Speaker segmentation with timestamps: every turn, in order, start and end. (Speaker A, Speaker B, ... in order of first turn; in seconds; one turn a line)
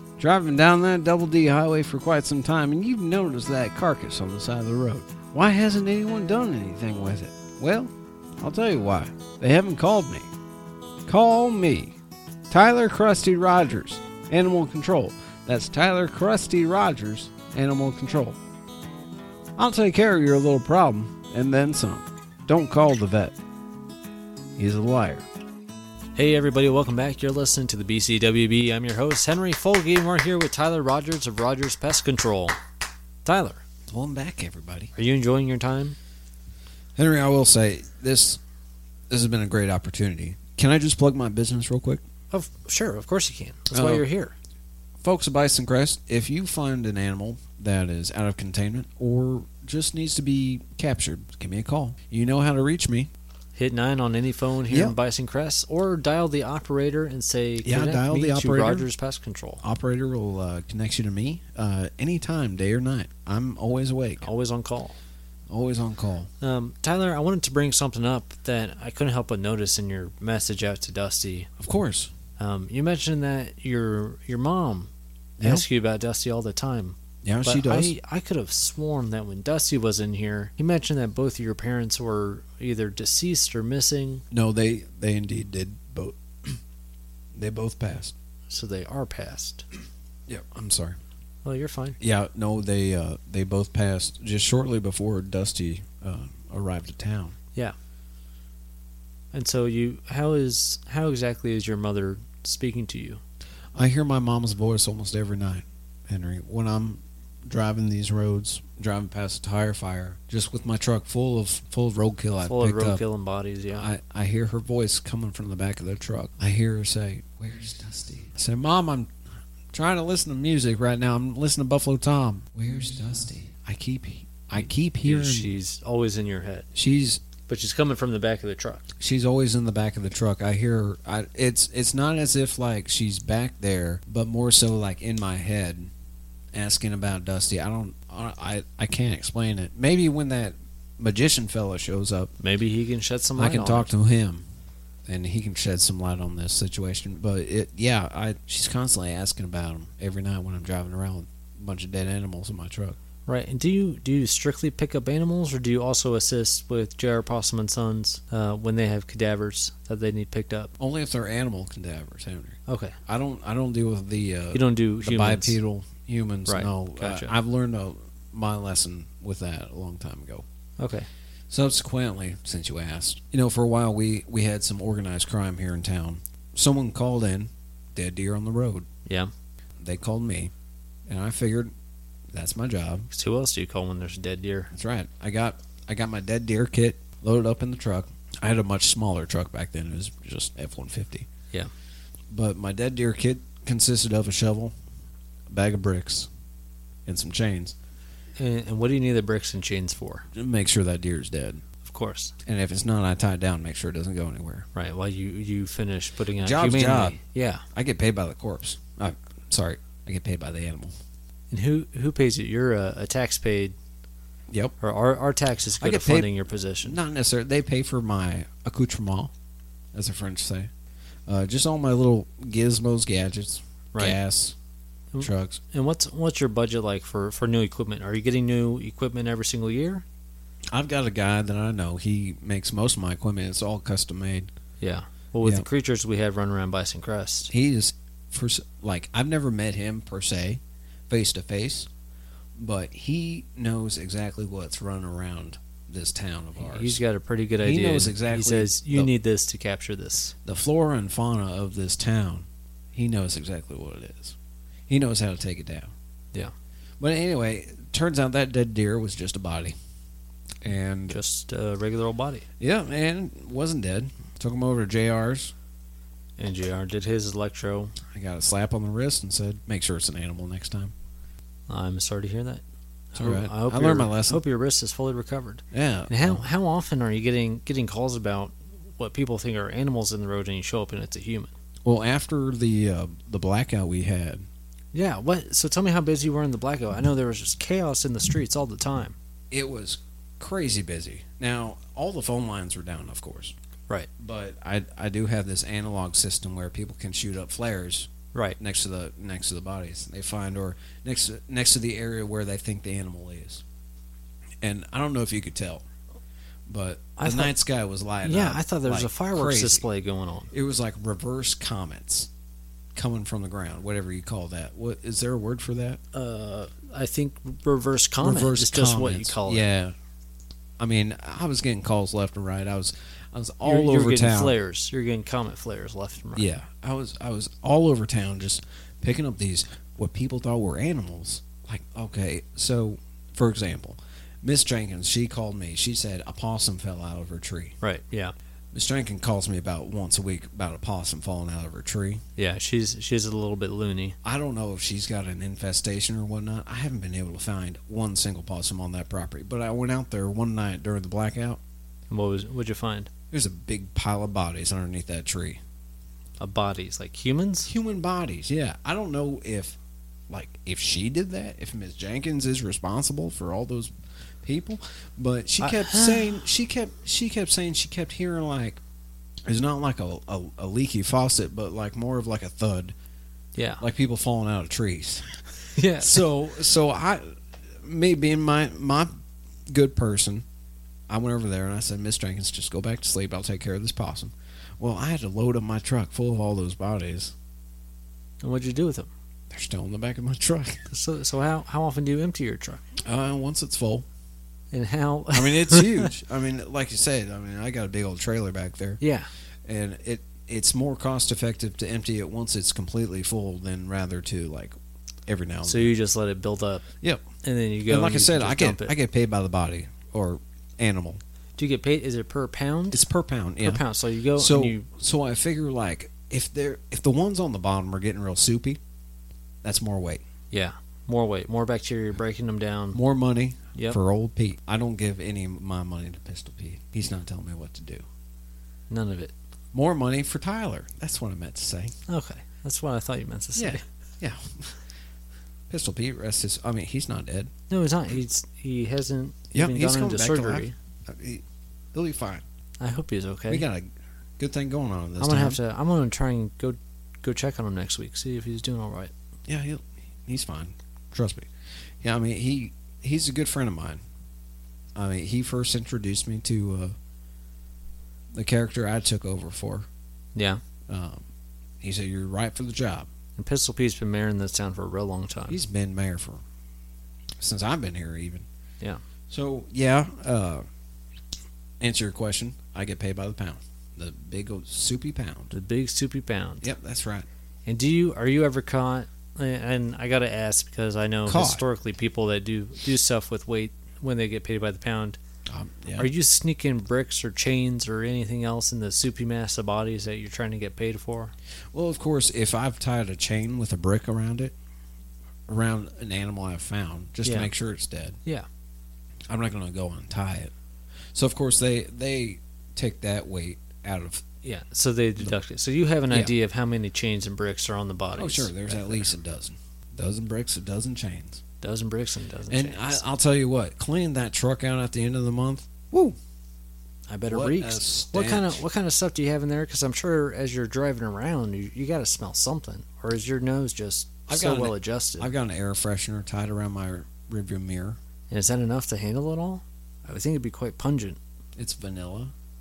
Speaker A: 0.2-10.3
Speaker A: 11.1-12.0
Speaker A: 12.5-18.4
Speaker A: 19.6-23.4
Speaker A: 24.6-25.3
Speaker B: 26.2-32.6
Speaker B: 33.2-33.6
Speaker A: 33.9-34.9
Speaker B: 35.0-36.0
Speaker A: 37.0-38.4
Speaker A: 39.1-42.0
Speaker B: 42.3-44.4
Speaker A: 43.7-44.1
Speaker A: 45.0-53.1
Speaker B: 53.6-59.6
Speaker A: 54.7-55.0
Speaker A: 57.6-58.9
Speaker A: 59.6-64.3
Speaker B: 64.2-65.0
Speaker A: 65.5-66.3
Speaker B: 66.4-71.5
Speaker A: 71.6-72.1
Speaker B: 72.4-74.9
Speaker A: 75.4-75.7
Speaker B: 75.4-84.2
Speaker A: 77.2-78.0
Speaker A: 84.3-86.6
Speaker A: 87.3-88.2
Speaker B: 88.5-89.6
Speaker A: 90.3-91.0
Speaker B: 91.4-92.0
Speaker A: 92.0-97.4
Speaker B: 99.3-103.2
Speaker A: 103.7-113.0
Speaker B: 112.4-113.9
Speaker A: 113.7-119.1
Speaker A: 119.7-125.5
Speaker B: 125.0-126.7
Speaker A: 126.8-127.2
Speaker B: 127.5-128.9
Speaker A: 129.0-135.9
Speaker A: 136.5-142.3
Speaker B: 142.4-143.9
Speaker A: 143.4-144.4
Speaker A: 145.1-153.0
Speaker B: 153.3-160.7
Speaker A: 160.8-170.4
Speaker B: 162.7-163.0
Speaker B: 164.5-165.6
Speaker B: 166.5-167.3
Speaker B: 170.8-171.1
Speaker A: 171.5-178.9
Speaker A: 179.8-180.5
Speaker A: 181.1-181.7
Speaker A: 182.3-183.1
Speaker B: 183.1-184.7
Speaker A: 184.7-191.3
Speaker A: 192.3-194.7
Speaker A: 195.5-196.3
Speaker A: 197.1-197.8
Speaker B: 198.4-200.3
Speaker A: 200.3-201.6
Speaker B: 201.8-202.3
Speaker A: 202.4-204.7
Speaker B: 204.7-207.6
Speaker A: 206.4-207.2
Speaker A: 207.7-210.9
Speaker B: 211.5-213.8
Speaker A: 214.5-214.8
Speaker B: 214.8-217.0
Speaker A: 215.8-216.3
Speaker A: 216.8-219.3
Speaker A: 219.9-220.7
Speaker A: 221.3-224.6
Speaker B: 223.9-224.2
Speaker B: 225.1-230.0
Speaker A: 225.2-225.6
Speaker A: 230.7-234.5
Speaker B: 234.8-237.5
Speaker A: 237.5-241.9
Speaker A: 242.6-247.0
Speaker B: 246.6-250.3
Speaker A: 247.6-249.1
Speaker A: 250.4-254.4
Speaker A: 254.9-255.9
Speaker A: 257.0-259.7
Speaker A: 260.6-261.2
Speaker B: 261.1-262.5
Speaker A: 262.6-265.5
Speaker B: 266.4-268.0
Speaker A: 268.1-270.9
Speaker B: 271.7-281.5
Speaker A: 273.2-274.4
Speaker A: 275.7-276.4
Speaker A: 281.8-284.4
Speaker B: 284.9-289.2
Speaker A: 289.5-293.6
Speaker A: 294.2-303.6
Speaker A: 304.6-305.8
Speaker A: 306.7-309.9
Speaker B: 307.2-307.6
Speaker B: 308.2-310.5
Speaker A: 310.5-312.3
Speaker A: 312.9-316.0
Speaker B: 316.1-319.6
Speaker A: 318.2-319.9
Speaker A: 320.8-324.6
Speaker B: 323.6-326.5
Speaker A: 326.4-337.8
Speaker B: 337.8-338.3
Speaker A: 338.7-342.2
Speaker B: 342.4-344.2
Speaker A: 344.2-351.6
Speaker B: 352.1-353.1
Speaker A: 353.3-355.6
Speaker B: 356.4-357.7
Speaker A: 357.7-359.8
Speaker A: 360.3-368.8
Speaker B: 365.6-366.4
Speaker A: 369.5-372.9
Speaker B: 373.6-373.8
Speaker A: 373.8-375.4
Speaker B: 375.8-376.2
Speaker A: 376.0-379.1
Speaker A: 379.7-380.4
Speaker A: 381.1-387.3
Speaker B: 388.4-389.1
Speaker A: 389.5-390.8
Speaker B: 390.9-392.8
Speaker A: 393.0-394.1
Speaker B: 394.7-396.1
Speaker A: 395.3-399.0
Speaker B: 399.0-399.3
Speaker A: 399.6-404.8
Speaker A: 405.3-405.9
Speaker B: 405.6-406.9
Speaker B: 407.4-408.9
Speaker A: 407.9-411.2
Speaker B: 411.6-413.1
Speaker A: 412.9-413.8
Speaker B: 413.6-414.9
Speaker A: 414.4-418.8
Speaker A: 419.6-420.2
Speaker B: 420.5-423.0
Speaker A: 422.9-428.0
Speaker B: 428.9-429.3
Speaker A: 429.7-431.9
Speaker B: 432.1-433.8
Speaker A: 433.6-434.8
Speaker A: 435.7-437.5
Speaker B: 437.7-440.8
Speaker A: 439.5-442.4
Speaker B: 442.8-443.6
Speaker A: 443.5-445.6
Speaker B: 445.2-449.1
Speaker A: 449.5-451.5
Speaker A: 452.0-454.0
Speaker A: 455.0-456.9
Speaker A: 458.3-459.9
Speaker B: 460.4-460.6
Speaker A: 460.9-461.2
Speaker A: 461.8-463.1
Speaker B: 463.4-465.6
Speaker A: 465.5-466.4
Speaker A: 467.4-468.5
Speaker A: 469.3-470.6
Speaker A: 471.8-475.5
Speaker B: 475.5-476.7
Speaker A: 476.6-477.3
Speaker B: 477.7-485.2
Speaker A: 481.3-481.6
Speaker A: 485.5-486.1
Speaker B: 486.0-491.3
Speaker A: 491.7-494.6
Speaker A: 495.5-498.2
Speaker B: 497.2-497.5
Speaker A: 499.3-500.5
Speaker A: 501.1-504.2
Speaker B: 504.4-509.1
Speaker A: 508.1-511.4
Speaker B: 511.6-513.0
Speaker A: 512.5-516.2
Speaker B: 517.1-525.3
Speaker A: 517.3-518.6
Speaker A: 524.3-528.0
Speaker B: 528.3-531.2
Speaker A: 531.6-532.3